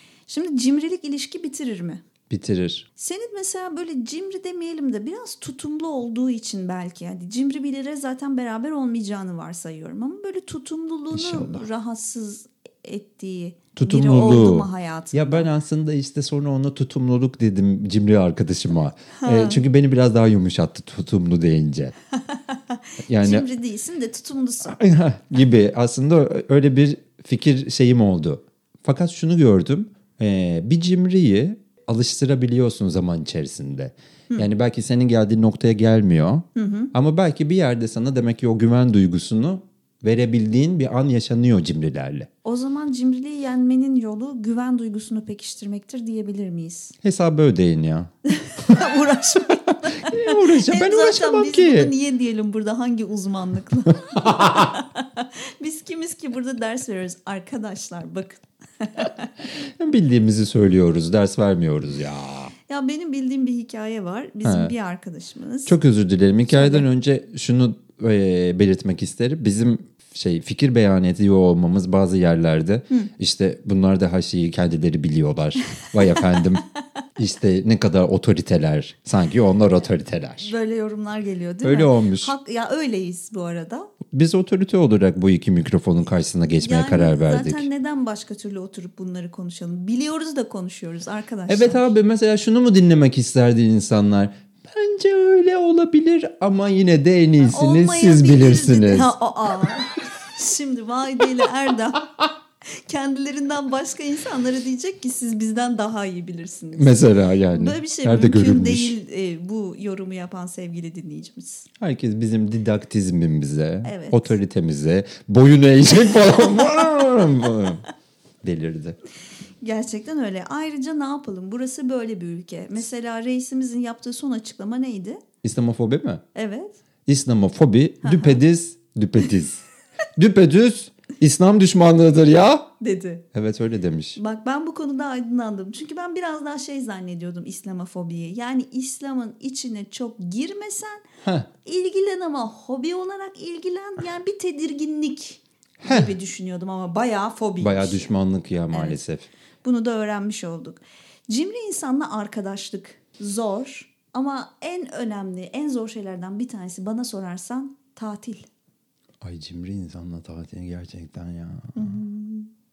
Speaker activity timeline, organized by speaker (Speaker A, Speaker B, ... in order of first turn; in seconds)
Speaker A: 0.3-2.0, 3.0-15.5, 19.1-19.6, 22.1-24.8, 36.5-36.9, 42.4-46.9, 48.3-59.3, 62.7-65.7, 66.4-66.9, 76.0-76.4, 80.4-83.9, 86.6-91.9, 97.4-102.2, 102.9-107.0, 107.5-111.7, 113.8-114.4, 116.8-117.6, 119.6-125.2, 126.3-126.8, 128.0-128.4, 132.8-133.2, 134.2-141.0, 141.6-148.1, 148.7-149.0, 149.6-158.4, 161.7-162.5
Speaker B: 2.3-2.9, 11.1-11.6, 13.8-21.9, 23.1-23.4, 24.6-42.3, 47.0-48.1, 49.9-51.9, 54.1-54.5, 59.4-62.5, 64.4-64.7, 65.7-76.6, 77.2-80.5, 81.6-82.3, 84.1-87.7, 91.5-99.1, 106.8-108.9, 111.8-117.8, 118.4-119.0, 125.4-126.2, 127.0-129.6, 130.2-132.7, 133.3-134.2, 141.2-141.5, 145.8-146.1, 147.6-149.3, 159.2-162.0